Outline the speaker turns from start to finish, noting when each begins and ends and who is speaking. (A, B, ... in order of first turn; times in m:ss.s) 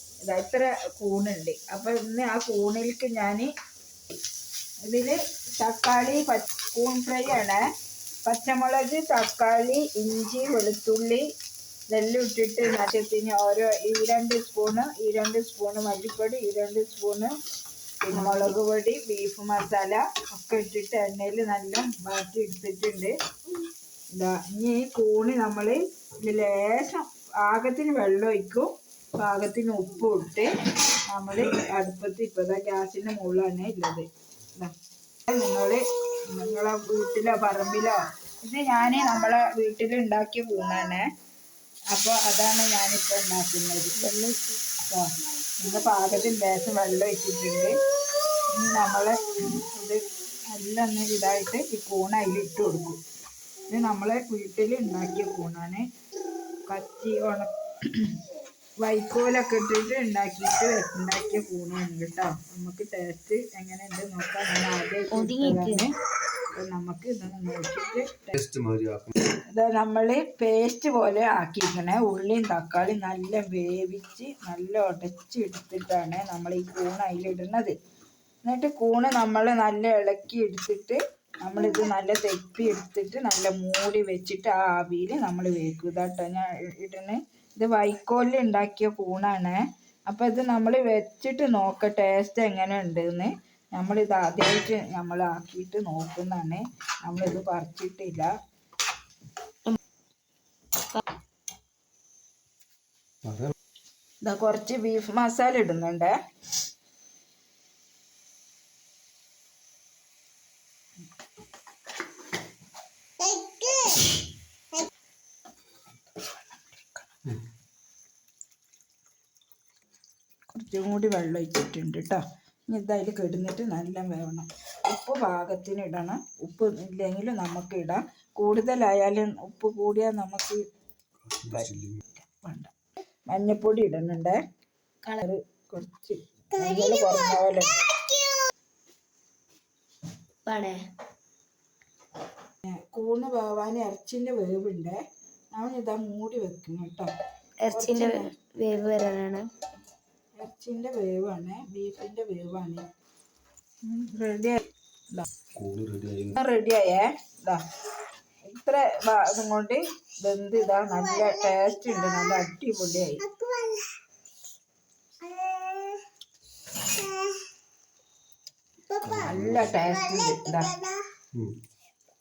0:00.2-0:03.5 A
0:04.9-0:07.6 A
0:08.2-0:11.2 A
0:11.9-0:17.3 A
0:18.0-0:23.1 A
0:18.1-0:18.5 B
0:24.1-0:30.5 A
0:31.1-0:34.7 A
0:35.3-0:41.0 A
0:41.9-0:44.0 A
0:44.0-0:44.6 B
0:45.6-0:47.8 A
0:48.6-0:53.0 A
0:53.7-0:55.8 A
0:56.7-0:58.2 A
0:58.8-1:05.9 A
1:05.1-1:05.9 B
1:06.6-1:08.3 A
1:08.3-1:09.1 C
1:09.5-1:17.7 A
1:18.5-1:29.6 A
1:30.1-1:38.3 A
1:43.2-1:43.5 C
1:44.2-1:46.1 A
1:56.7-1:57.0 A
2:00.5-2:10.6 A
2:11.2-2:12.0 C
2:11.5-2:12.7 A
2:13.3-2:14.4 A
2:15.2-2:17.9 A
2:20.5-2:20.8 B
2:22.6-2:25.0 A
2:25.5-2:27.1 A
2:27.6-2:29.5 B
2:27.7-2:28.3 A
2:30.4-2:32.8 A
2:33.9-2:34.6 A
2:35.6-2:36.4 C
2:36.3-2:37.6 A
2:38.5-2:43.3 A
2:49.0-2:49.8 C
2:49.2-2:50.8 A